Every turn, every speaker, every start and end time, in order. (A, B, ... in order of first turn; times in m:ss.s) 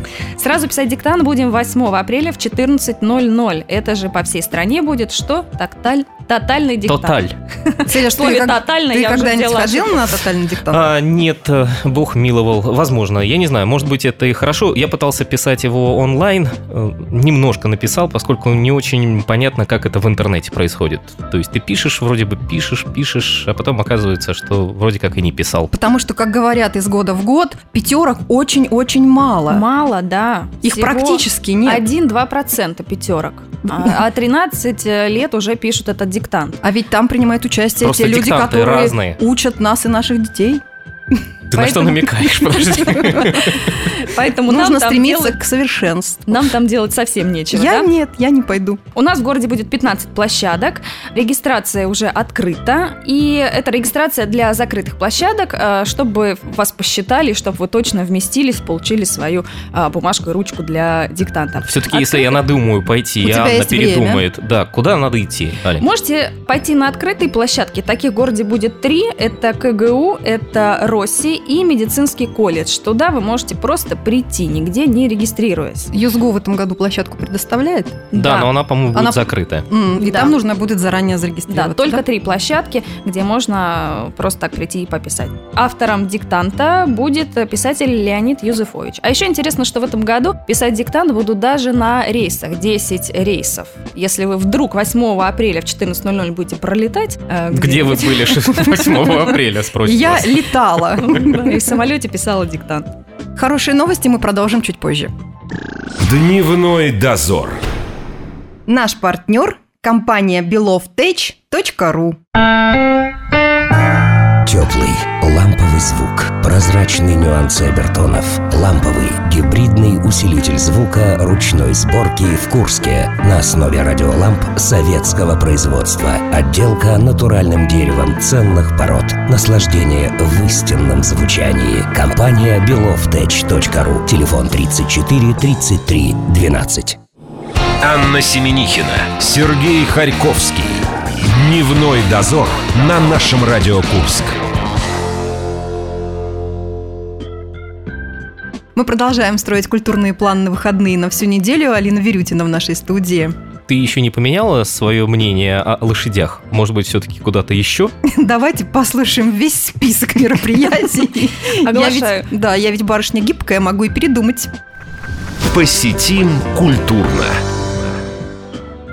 0:00.4-0:10.0 A
0:06.9-0:07.3 B
0:07.9-0:10.9 C
0:10.7-0:25.7 B
0:25.7-0:29.6 C
0:29.5-0:36.6 A
0:30.6-0:31.8 C
0:36.6-0:43.4 C
0:37.8-0:39.2 B
0:41.5-0:43.7 B
0:43.4-0:45.4 A
0:44.5-0:46.2 C
0:46.3-0:47.9 A
0:47.5-0:48.8 C
0:49.0-1:02.4 A
1:01.6-1:05.8 B
1:03.2-1:04.2 C
1:05.8-1:15.9 A
1:15.9-1:18.1 C
1:18.1-1:18.5 A
1:18.1-1:19.7 B
1:18.9-1:22.0 C
1:20.0-1:20.3 A
1:21.5-1:38.7 A
1:37.5-1:40.5 B
1:39.8-1:41.5 C
1:41.0-1:42.9 A
1:43.4-1:45.1 C
1:46.0-1:47.6 D
1:48.7-1:52.2 C
1:54.5-2:17.0 E
2:17.8-2:24.4 D
2:28.8-2:33.4 C
2:33.7-2:37.9 B
2:38.0-2:44.5 C
2:41.6-2:42.3 A
2:45.5-2:47.4 D